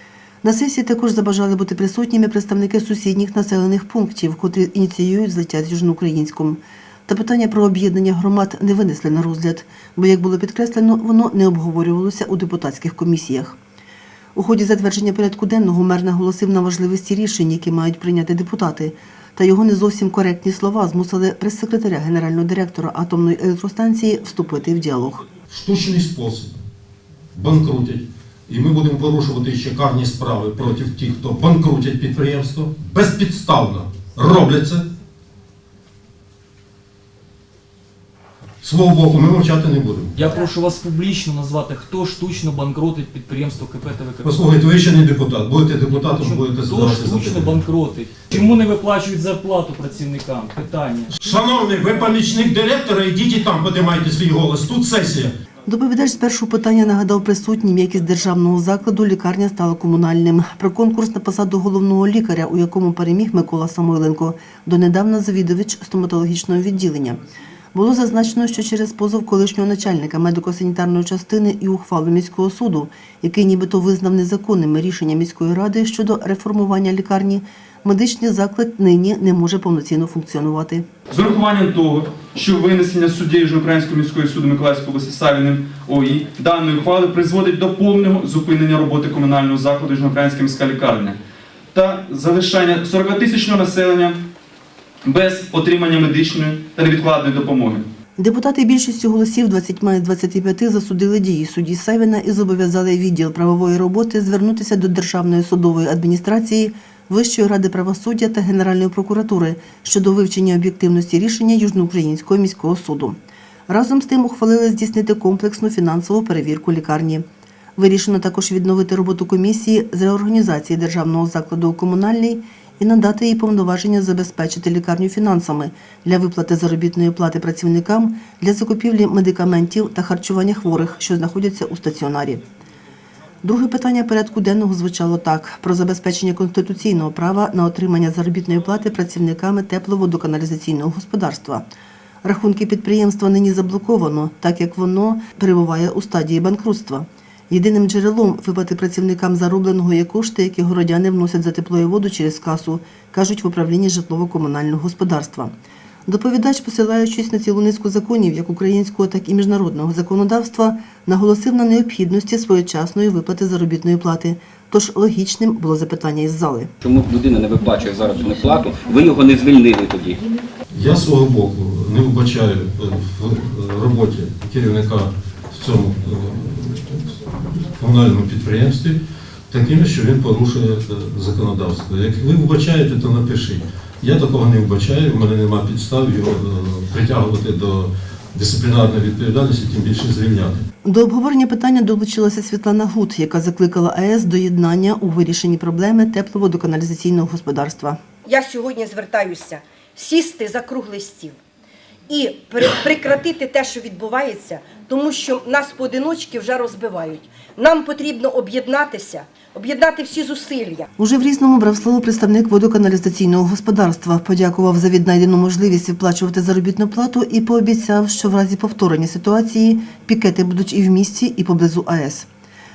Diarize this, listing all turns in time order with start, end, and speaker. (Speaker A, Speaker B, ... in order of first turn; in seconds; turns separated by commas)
Speaker A: 0.4-13.6, Speaker A: 14.3-25.2, Speaker B: 25.5-26.6, Speaker B: 27.3-34.9, Speaker B: 38.6-40.2, Speaker C: 40.1-44.3, Speaker B: 44.2-47.6, Speaker C: 45.9-51.2, Speaker B: 51.1-55.3, Speaker A: 55.6-67.2, Speaker A: 67.7-80.8, Speaker D: 81.1-91.2, Speaker D: 91.7-94.2, Speaker D: 95.0-97.9, Speaker A: 98.2-113.2, Speaker A: 113.7-117.2, Speaker A: 117.8-132.4, Speaker A: 133.4-141.6, Speaker A: 142.2-155.5, Speaker A: 156.1-166.7, Speaker E: 166.8-170.2, Speaker B: 170.7-190.6, Speaker A: 190.8-198.0, Speaker F: 198.2-201.4, Speaker F: 202.1-210.9, Speaker A: 211.0-222.3